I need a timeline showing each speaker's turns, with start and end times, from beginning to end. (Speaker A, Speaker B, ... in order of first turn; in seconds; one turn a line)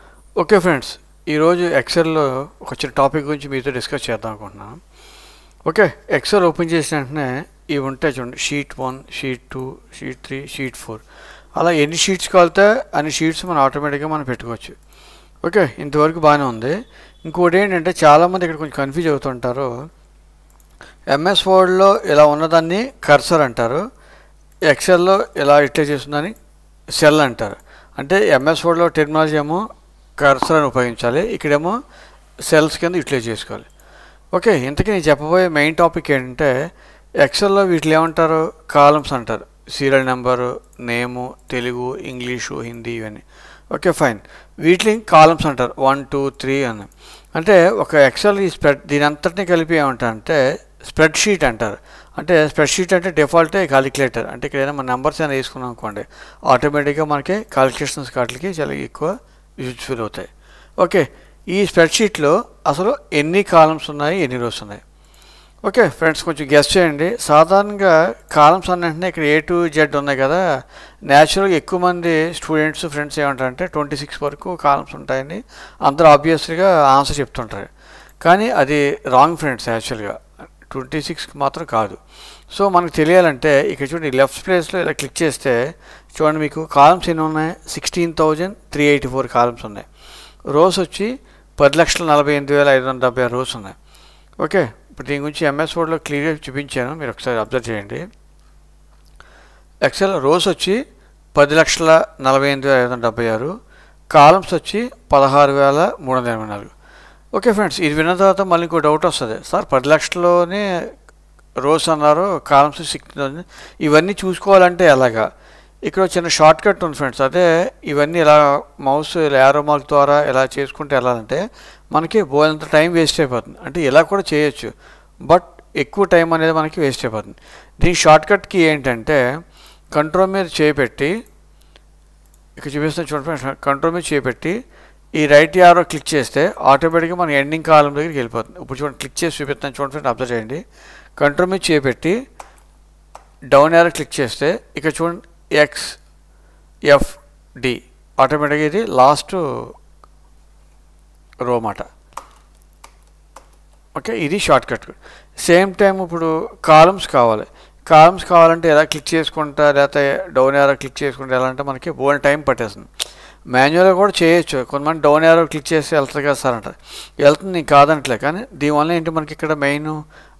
Speaker A: 0.4-4.8
Speaker A: 5.7-11.0
Speaker A: 11.6-14.8
Speaker A: 15.4-19.7
Speaker A: 21.1-23.8
Speaker A: 24.7-26.4
Speaker A: 27.0-29.6
Speaker A: 30.2-31.8
Speaker A: 32.5-33.7
Speaker A: 34.3-36.5
Speaker A: 37.2-64.8
Speaker A: 65.7-70.4
Speaker A: 71.1-77.7
Speaker A: 78.2-82.0
Speaker A: 82.5-85.6
Speaker A: 86.2-89.9
Speaker A: 90.5-93.8
Speaker A: 94.4-98.0
Speaker A: 99.8-100.8
Speaker A: 101.3-103.5
Speaker A: 104.1-106.7
Speaker A: 107.3-110.7
Speaker A: 111.6-115.3
Speaker A: 115.9-121.4
Speaker A: 121.9-124.7
Speaker A: 125.3-129.2
Speaker A: 129.9-131.1
Speaker A: 132.6-134.6
Speaker A: 135.2-140.6
Speaker A: 141.2-142.2
Speaker A: 143.5-146.0
Speaker A: 146.9-149.7
Speaker A: 151.4-151.9
Speaker A: 154.0-162.9
Speaker A: 163.5-170.0